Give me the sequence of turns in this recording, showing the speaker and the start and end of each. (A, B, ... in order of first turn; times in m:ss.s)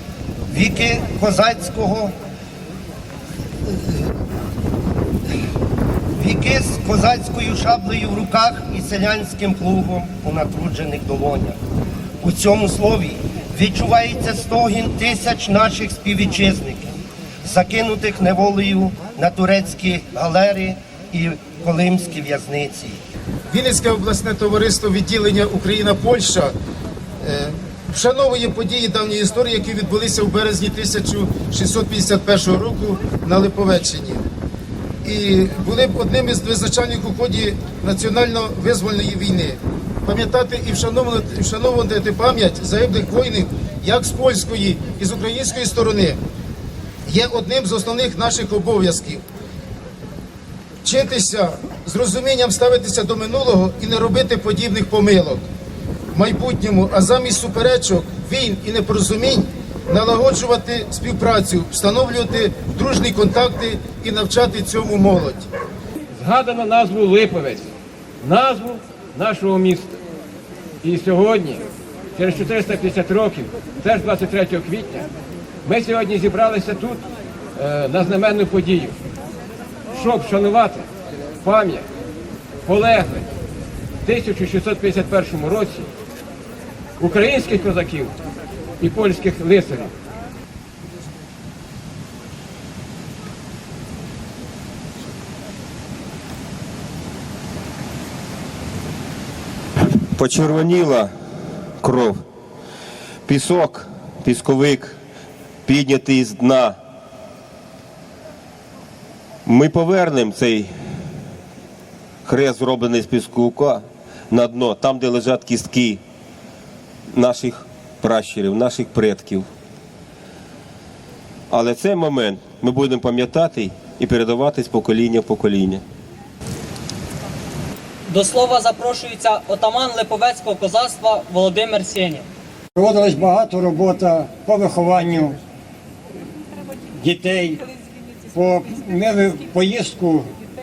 0:00.5-0:02.1 A
0:06.2-0:11.6 A
0:12.2-0:16.9 A
0:17.4-0:23.0 A
0:23.5-0:26.5 B
0:27.2-0:34.2 B
0:35.0-0:46.2 B
0:47.1-0:49.2 B
0:50.8-0:55.4 B
0:56.1-1:05.5 B
1:06.1-1:10.0 C
1:10.8-1:15.1 C
1:15.6-1:17.0 C
1:17.6-1:19.0 C
1:19.9-1:20.9 C
1:21.4-1:21.9 C
1:22.6-1:23.3 C
1:24.0-1:25.9 C
1:27.0-1:28.1 C
1:28.8-1:29.9 C
1:40.2-1:41.1 D
1:41.8-1:42.2 D
1:43.3-1:44.9 D
1:45.6-1:46.8 D
1:49.4-1:50.7 D
1:52.2-1:56.0 D
1:57.1-1:59.5 D
2:01.5-2:05.8 D
2:08.1-2:12.2 E
2:12.8-2:15.4 F
2:17.0-2:17.6 F
2:18.3-2:20.3 F